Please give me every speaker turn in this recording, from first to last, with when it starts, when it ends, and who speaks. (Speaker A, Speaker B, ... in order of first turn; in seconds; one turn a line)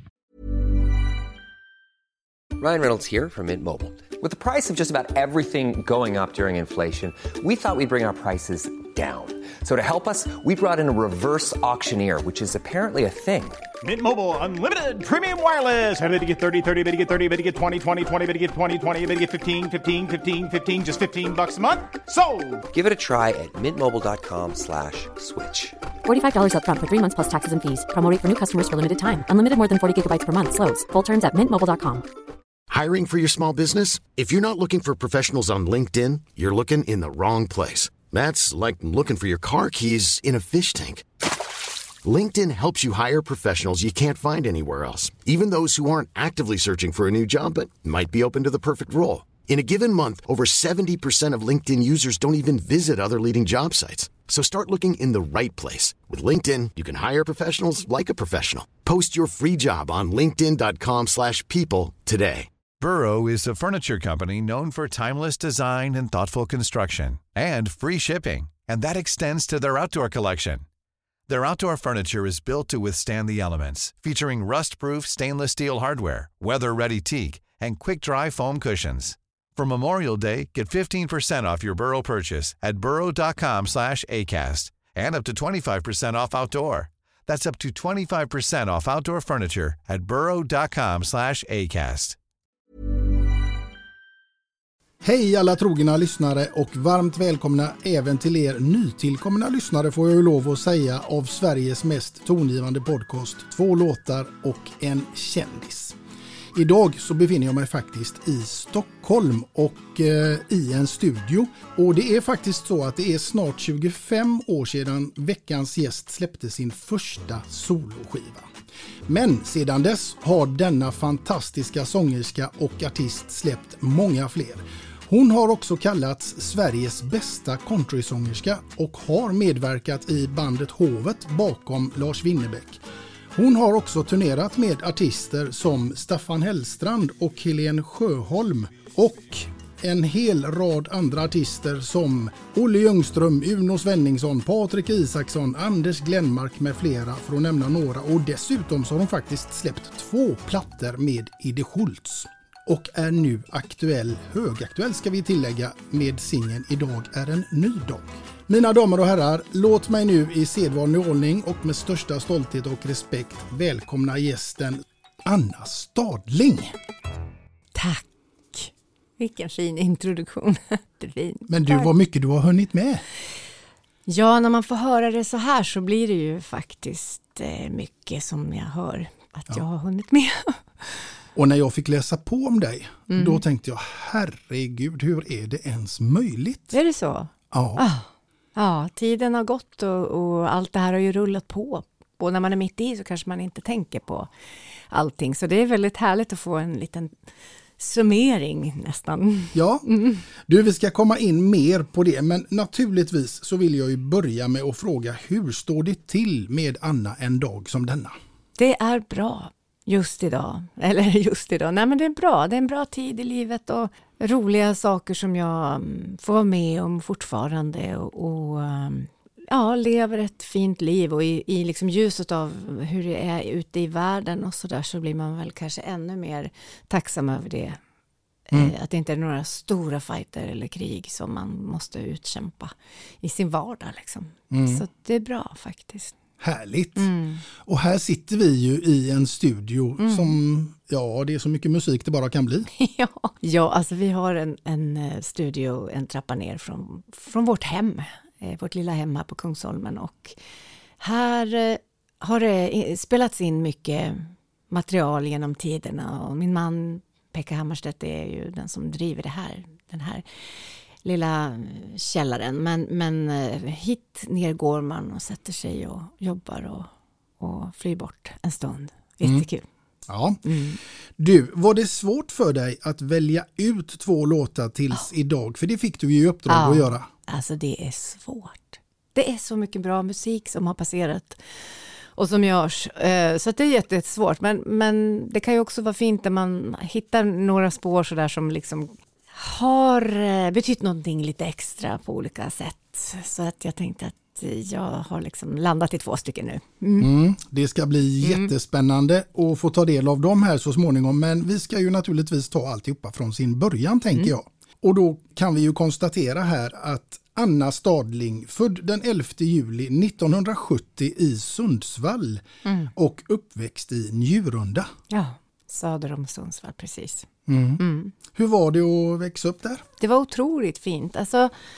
Speaker A: 2.6-13.6
Speaker B: 13.8-22.7
Speaker A: 22.7-25.8
Speaker C: 26.0-32.1
Speaker D: 32.7-41.0
Speaker D: 42.0-62.5
Speaker E: 62.8-70.7
Speaker E: 71.3-92.2
Speaker F: 95.0-106.0
Speaker F: 106.5-118.5
Speaker F: 119.1-132.8
Speaker F: 133.3-166.8
Speaker G: 167.8-171.9
Speaker F: 171.5-173.0
Speaker G: 174.1-181.1
Speaker F: 181.3-186.8
Speaker G: 183.1-183.4
Speaker G: 186.7-194.3
Speaker F: 187.5-187.8
Speaker G: 194.9-197.2
Speaker G: 197.8-200.2
Speaker F: 199.5-199.8
Speaker F: 200.5-208.2
Speaker G: 208.6-227.8
Speaker G: 228.5-236.1
Speaker F: 234.5-234.8
Speaker F: 236.4-242.7
Speaker G: 237.0-237.4
Speaker G: 240.0-240.4
Speaker G: 242.8-250.4
Speaker G: 251.0-260.2
Speaker G: 261.0-269.7
Speaker F: 270.1-270.4
Speaker G: 270.4-270.8
Speaker F: 271.2-277.1
Speaker G: 276.5-297.1
Speaker F: 297.0-314.9
Speaker G: 298.2-298.5
Speaker G: 312.6-312.9
Speaker G: 315.1-317.3
Speaker F: 317.5-319.8
Speaker G: 317.8-318.1
Speaker G: 320.0-321.5